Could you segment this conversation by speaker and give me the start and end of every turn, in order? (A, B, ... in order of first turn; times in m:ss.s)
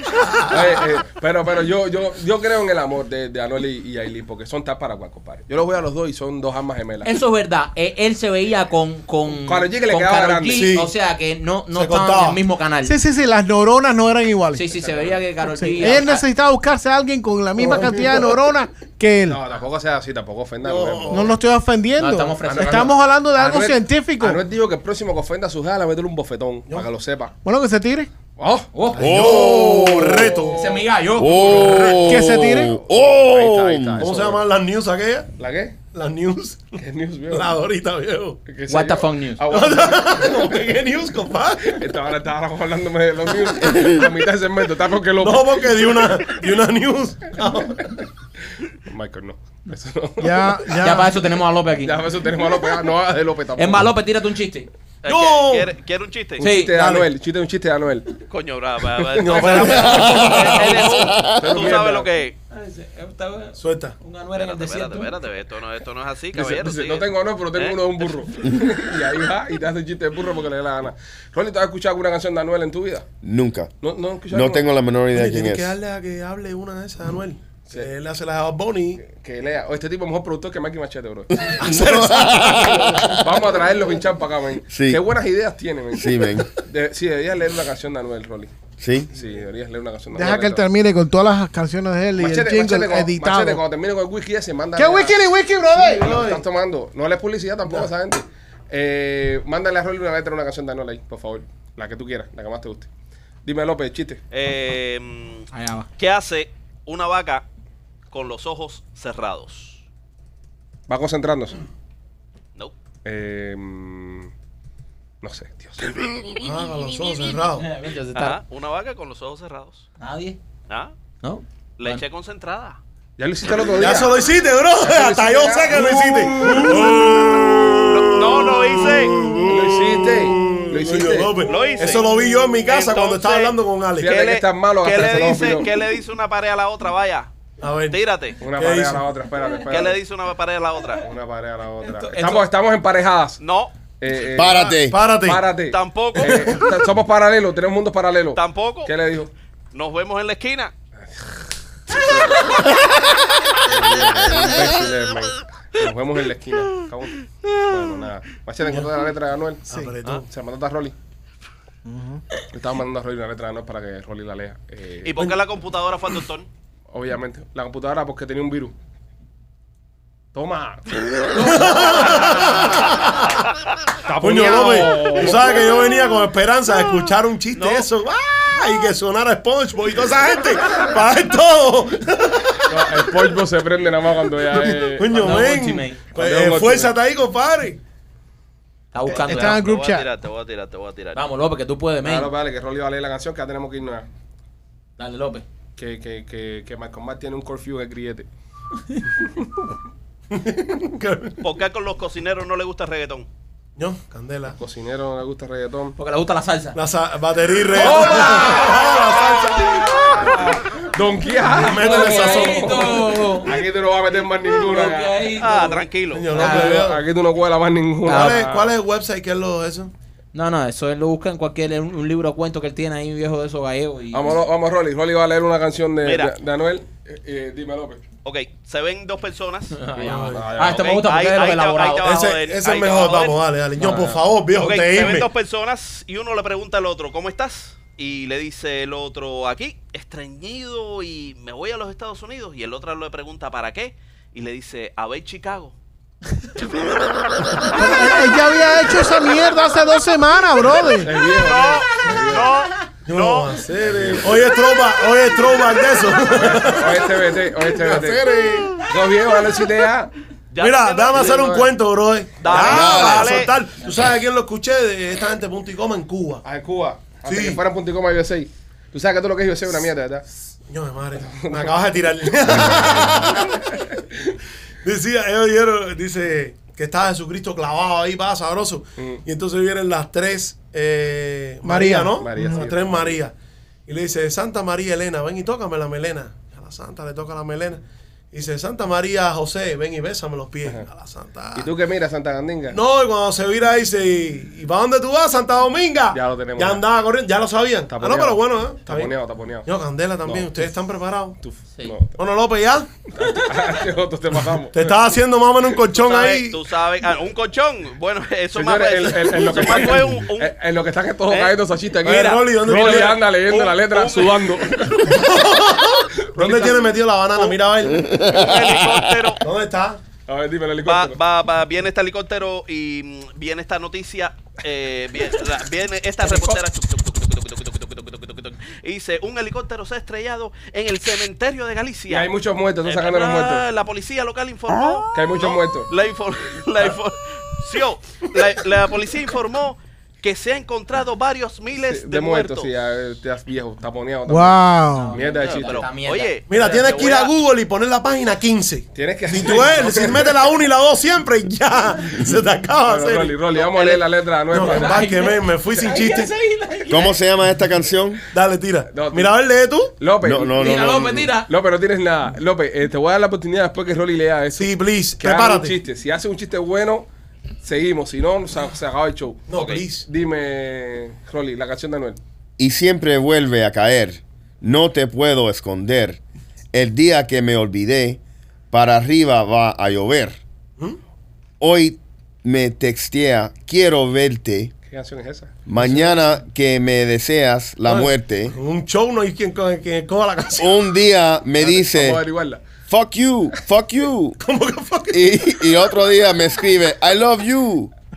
0:00.5-0:07.1 A
0:07.0-0:13.0 B
0:09.3-0:10.8 A
0:10.5-0:10.9 C
0:11.7-0:12.4 C
0:12.9-0:14.6 D
0:14.5-0:16.2 B
0:14.8-0:15.2 A
0:15.6-0:19.4 D
0:17.6-0:18.4 C
0:19.3-0:21.3 A
0:20.6-0:21.4 C
0:21.1-0:24.4 D
0:22.0-0:22.9 B
0:22.4-0:27.3 A
0:27.4-0:28.1 D
0:28.4-0:34.5 A
0:28.7-0:29.3 B
0:28.9-0:30.7 C
0:29.0-0:30.4 E
0:30.5-0:32.0 B
0:31.2-0:34.1 E
0:32.0-0:32.8 D
0:34.0-0:35.3 C
0:35.4-0:35.8 A
0:35.9-0:38.4 C
0:36.8-0:37.5 A
0:38.5-0:40.6 A
0:38.7-0:39.4 B
0:39.5-0:41.8 C
0:41.7-0:46.2 A
0:45.2-0:48.1 C
0:48.9-0:50.8 A
0:50.2-0:51.1 D
0:50.8-0:52.0 B
0:51.8-0:53.9 A
0:53.6-0:54.7 B
0:55.0-0:56.4 F
0:55.1-0:55.7 C
0:56.4-0:58.2 A
0:56.4-0:56.7 B
0:56.5-0:57.1 C
0:58.3-1:02.4 F
0:59.2-1:02.1 A
0:59.2-1:00.8 C
0:59.7-1:01.6 E
1:02.5-1:05.1 B
1:03.6-1:04.0 C
1:04.3-1:07.8 F
1:06.3-1:13.1 A
1:08.4-1:08.7 E
1:13.2-1:13.7 E
1:13.8-1:14.6 A
1:14.3-1:15.8 E
1:15.1-1:19.0 C
1:19.0-1:21.6 A
1:21.4-1:23.3 E
1:21.6-1:23.4 C
1:22.4-1:28.5 A
1:24.7-1:25.0 E
1:25.9-1:26.5 E
1:28.8-1:29.1 E
1:29.1-1:30.6 A
1:30.2-1:33.6 D
1:32.2-1:35.2 A
1:34.8-1:36.1 D
1:35.8-1:36.4 C
1:35.8-1:42.9 A
1:43.4-1:44.2 A
1:44.3-1:45.5 F
1:45.5-1:45.9 B
1:46.0-1:47.5 F
1:48.1-1:49.8 F
1:50.9-1:51.6 A
1:53.0-1:54.3 A
1:55.2-1:56.1 A
1:56.4-1:57.7 C
1:57.6-1:58.4 B
1:58.2-1:59.8 F
2:00.0-2:00.4 B
2:00.7-2:01.0 F
2:01.2-2:02.0 B
2:01.8-2:02.8 F
2:03.2-2:07.0 A
2:03.8-2:14.2 C
2:07.8-2:09.3 F
2:09.4-2:11.9 A
2:11.4-2:17.3 F
2:14.0-2:15.8 A
2:17.6-2:19.1 C
2:17.9-2:18.4 F
2:18.4-2:20.0 A
2:19.7-2:21.0 F
2:21.0-2:23.4 A
2:21.8-2:22.5 B
2:23.4-2:23.7 F
2:24.0-2:29.3 A
2:24.4-2:25.0 E
2:24.4-2:25.5 C
2:25.7-2:26.6 F
2:28.3-2:28.9 F
2:29.7-2:30.7 F
2:31.9-2:32.5 A
2:33.6-2:40.9 A
2:38.6-2:38.9 C
2:39.7-2:40.3 C
2:41.9-2:42.2 D
2:42.5-2:45.2 A
2:45.0-2:46.5 F
2:46.9-2:48.7 A
2:50.3-2:50.9 A
2:51.3-2:53.4 C
2:54.0-2:55.8 A
2:54.2-3:03.1 C
2:57.5-2:57.9 F
3:02.7-3:05.5 A
3:04.5-3:07.8 C
3:05.1-3:06.0 B
3:06.1-3:06.9 A
3:08.9-3:09.6 B
3:09.1-3:10.1 D
3:09.1-3:09.5 C
3:09.3-3:11.2 F
3:11.1-3:12.3 B
3:12.0-3:14.1 A
3:15.0-3:15.4 B
3:15.8-3:18.3 A
3:20.3-3:21.4 C
3:21.4-3:23.3 F
3:23.8-3:24.6 C
3:24.6-3:26.0 A
3:26.0-3:26.8 B
3:26.8-3:30.1 C
3:27.8-3:28.8 A
3:27.8-3:30.6 B
3:28.0-3:28.5 F
3:30.8-3:35.4 A
3:31.5-3:33.2 C
3:31.5-3:33.5 B
3:34.6-3:36.9 B
3:35.4-3:36.4 F
3:36.1-3:37.0 C
3:36.4-3:38.7 A
3:38.0-3:39.9 C
3:38.1-3:38.4 B
3:40.3-3:44.3 B
3:44.1-3:48.0 A
3:46.0-3:46.3 F
3:48.2-3:49.8 F
3:49.7-3:52.2 B
3:50.0-3:50.9 A
3:50.0-3:50.5 C
3:50.6-3:53.4 F
3:52.0-3:55.3 C
3:53.8-3:54.2 A
3:54.5-4:05.8 F
4:07.8-4:11.1 D
4:11.0-4:12.5 A
4:11.4-4:13.6 F
4:13.1-4:18.8 C
4:13.6-4:14.5 A
4:16.3-4:20.1 A
4:20.5-4:21.6 F
4:20.6-4:26.4 C
4:21.1-4:21.7 A
4:22.4-4:23.5 F
4:22.6-4:23.5 E
4:26.4-4:30.3 A
4:27.3-4:27.6 C
4:30.7-4:33.8 C
4:31.3-4:31.8 A
4:32.6-4:33.8 A
4:34.8-4:43.3 C
4:39.0-4:39.2 A
4:41.6-4:42.6 D
4:42.2-4:43.2 A
4:43.9-4:51.7 C
4:51.6-4:52.8 A
4:52.7-4:59.1 C
4:56.1-4:56.8 A
4:57.9-4:59.7 A
4:59.7-5:01.4 C
5:00.2-5:00.6 A
5:01.4-5:02.2 A
5:02.2-5:02.9 C
5:03.1-5:04.9 A
5:04.7-5:06.6 C
5:05.9-5:10.5 F
5:08.5-5:15.1 A
5:11.3-5:11.6 F
5:12.0-5:13.3 C
5:13.4-5:14.9 F
5:15.0-5:18.2 C
5:16.2-5:17.0 A
5:17.8-5:19.3 E
5:18.3-5:19.4 F
5:19.4-5:20.0 C
5:20.3-5:21.2 A
5:20.8-5:32.3 F
5:26.2-5:26.6 B
5:32.1-5:33.7 A
5:32.9-5:42.7 F
5:35.1-5:35.9 A
5:41.8-5:45.8 A
5:44.3-5:45.1 D
5:44.9-5:46.8 B
5:45.2-5:47.4 F
5:46.5-5:53.4 C
5:48.9-5:50.4 A
5:52.9-5:55.1 A
5:53.6-5:54.0 F
5:54.5-5:56.3 C
5:54.6-5:57.2 B
5:56.9-5:58.2 E
5:58.3-5:59.9 C
5:58.9-5:59.3 A
6:00.0-6:07.1 A
6:00.2-6:01.3 E
6:00.6-6:01.5 B
6:04.6-6:05.8 C
6:07.6-6:12.2 A
6:09.5-6:10.1 C
6:09.6-6:09.8 F
6:12.6-6:16.2 E
6:16.7-6:20.4 E
6:21.6-6:24.7 E
6:24.9-6:25.6 A
6:25.7-6:28.6 E
6:25.8-6:26.2 C
6:27.9-6:30.8 C
6:30.6-6:32.2 E
6:31.6-6:32.6 A
6:32.9-6:34.4 E
6:34.4-6:35.9 C
6:35.1-6:37.9 E